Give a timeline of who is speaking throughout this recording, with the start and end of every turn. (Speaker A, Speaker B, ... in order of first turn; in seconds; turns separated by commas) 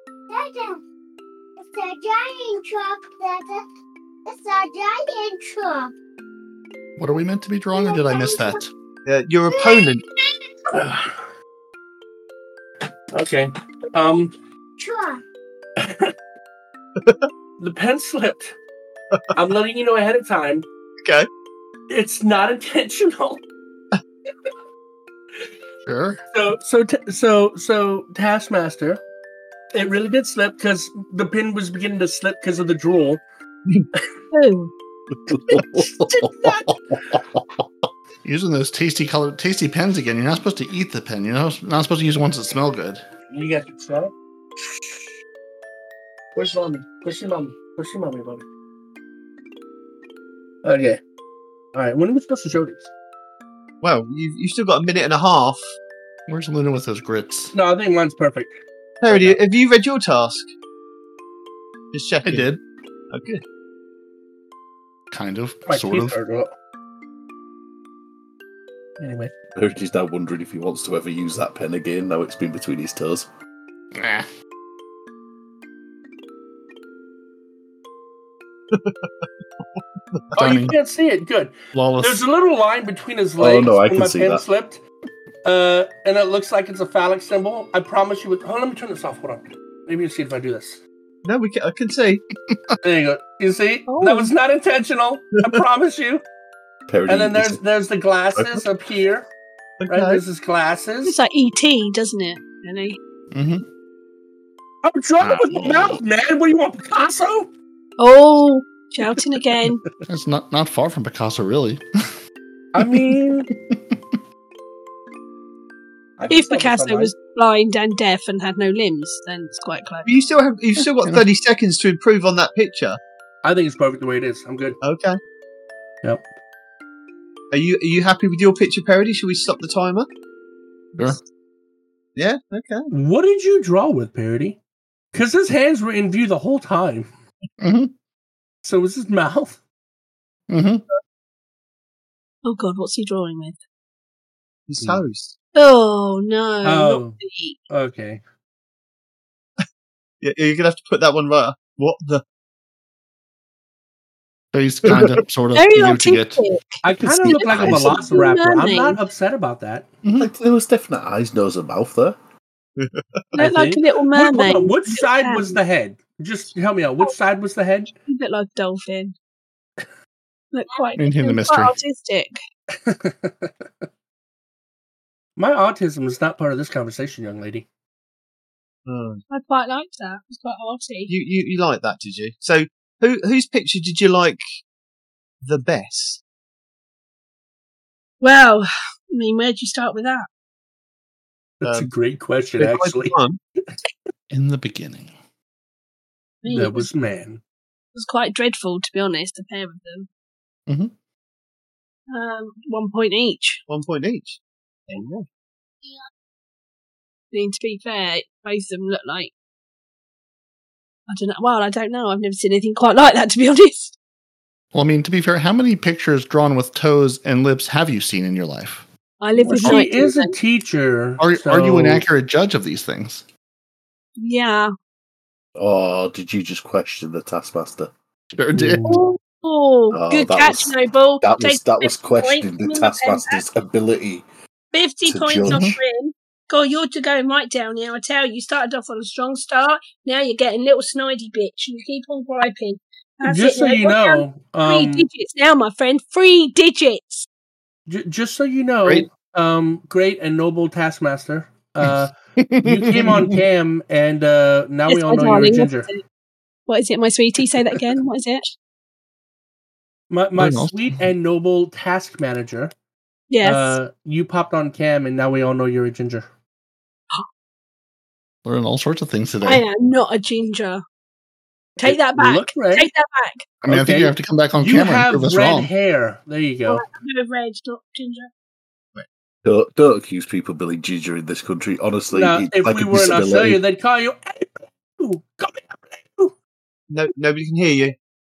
Speaker A: 0.3-0.8, Speaker A: 1.6-3.6, Speaker A: 4.3-5.9, Speaker B: 7.0-8.7, Speaker A: 7.7-8.6, Speaker C: 9.1-10.0, Speaker A: 9.5-10.0, Speaker D: 10.7-11.2, Speaker D: 13.1-14.3, Speaker A: 14.8-15.2, Speaker D: 15.8-16.1, Speaker C: 17.0-17.3, Speaker D: 17.6-18.6, Speaker D: 19.3-20.7, Speaker C: 21.0-21.3, Speaker D: 21.9-23.4, Speaker B: 25.9-26.2, Speaker D: 26.3-29.0, Speaker D: 29.7-33.2, Speaker E: 34.3-34.7, Speaker F: 35.3-37.6, Speaker D: 35.6-36.7, Speaker B: 38.2-43.0, Speaker D: 43.3-45.1, Speaker D: 46.4-48.5, Speaker D: 50.6-51.0, Speaker D: 51.8-52.9, Speaker C: 53.8-55.6, Speaker B: 56.3-57.5, Speaker D: 57.5-59.4, Speaker C: 59.0-60.5, Speaker C: 61.9-62.5, Speaker B: 62.2-62.6, Speaker C: 63.1-63.4, Speaker B: 65.1-66.2, Speaker D: 65.7-66.5, Speaker D: 69.0-69.3, Speaker F: 69.5-73.3, Speaker B: 74.0-74.3, Speaker C: 78.7-79.2, Speaker D: 80.3-84.8, Speaker B: 80.4-80.8, Speaker B: 81.7-82.2, Speaker F: 83.4-84.4, Speaker D: 85.5-90.8, Speaker C: 91.2-92.2, Speaker B: 92.5-92.8, Speaker D: 92.8-96.2, Speaker E: 93.9-94.3, Speaker F: 96.9-97.6, Speaker D: 97.1-99.3, Speaker F: 98.4-98.6, Speaker C: 99.8-100.2, Speaker D: 99.9-101.1, Speaker E: 101.1-103.0, Speaker B: 103.3-103.7, Speaker D: 104.8-107.5, Speaker B: 105.2-106.0, Speaker E: 108.0-109.8, Speaker B: 110.1-111.8, Speaker D: 112.7-113.5, Speaker B: 113.5-114.2, Speaker D: 116.2-117.1, Speaker E: 116.3-120.1, Speaker C: 120.1-123.0, Speaker D: 123.4-124.8, Speaker C: 124.8-125.2, Speaker C: 127.5-130.1, Speaker C: 132.2-132.9, Speaker D: 132.9-134.6, Speaker D: 135.1-137.1, Speaker B: 137.6-137.9, Speaker D: 138.6-139.6, Speaker B: 140.5-140.8, Speaker E: 142.4-143.6, Speaker C: 144.7-145.3, Speaker E: 145.6-147.6, Speaker D: 146.6-147.2, Speaker D: 147.7-148.2, Speaker C: 150.2-152.2, Speaker B: 154.5-156.4, Speaker C: 154.9-155.2, Speaker E: 155.6-159.0, Speaker D: 156.8-159.9, Speaker B: 157.0-158.0, Speaker B: 160.0-160.3, Speaker F: 160.2-162.2, Speaker C: 162.8-163.2, Speaker E: 163.4-165.6, Speaker D: 163.4-167.9, Speaker E: 168.1-169.2, Speaker E: 170.5-172.4, Speaker B: 171.0-171.8, Speaker D: 172.8-173.7, Speaker D: 175.4-177.7, Speaker C: 178.9-179.2, Speaker E: 179.3-181.1, Speaker C: 181.1-184.4, Speaker C: 185.4-186.2, Speaker E: 188.2-190.3, Speaker D: 191.6-193.2, Speaker C: 191.6-191.9, Speaker C: 192.6-193.4, Speaker B: 194.3-195.1, Speaker E: 196.4-196.9, Speaker D: 196.5-197.4, Speaker E: 197.9-200.1, Speaker B: 200.7-200.9, Speaker E: 202.1-203.6, Speaker C: 203.7-204.4, Speaker D: 204.9-205.2, Speaker E: 207.3-209.3, Speaker E: 211.1-213.9, Speaker B: 214.7-218.9, Speaker E: 219.2-220.4, Speaker D: 219.4-222.1, Speaker B: 221.2-223.2, Speaker E: 224.2-224.7, Speaker F: 225.6-227.9, Speaker B: 228.3-228.8, Speaker D: 228.5-229.1, Speaker E: 228.8-233.4, Speaker F: 229.9-234.2, Speaker E: 234.7-247.3, Speaker F: 235.1-235.7, Speaker B: 235.5-235.8, Speaker D: 243.2-245.1, Speaker D: 247.9-255.9, Speaker B: 251.8-253.4, Speaker E: 254.9-256.0, Speaker E: 256.7-258.5, Speaker D: 260.1-262.7, Speaker B: 260.4-261.0, Speaker E: 263.3-263.8, Speaker D: 263.4-266.3, Speaker B: 268.4-269.6, Speaker E: 269.4-270.8, Speaker E: 271.8-273.5, Speaker D: 271.8-272.9, Speaker B: 273.6-275.7, Speaker D: 273.7-276.8, Speaker E: 276.7-278.3, Speaker F: 279.4-283.6, Speaker D: 282.1-286.3, Speaker C: 286.9-288.0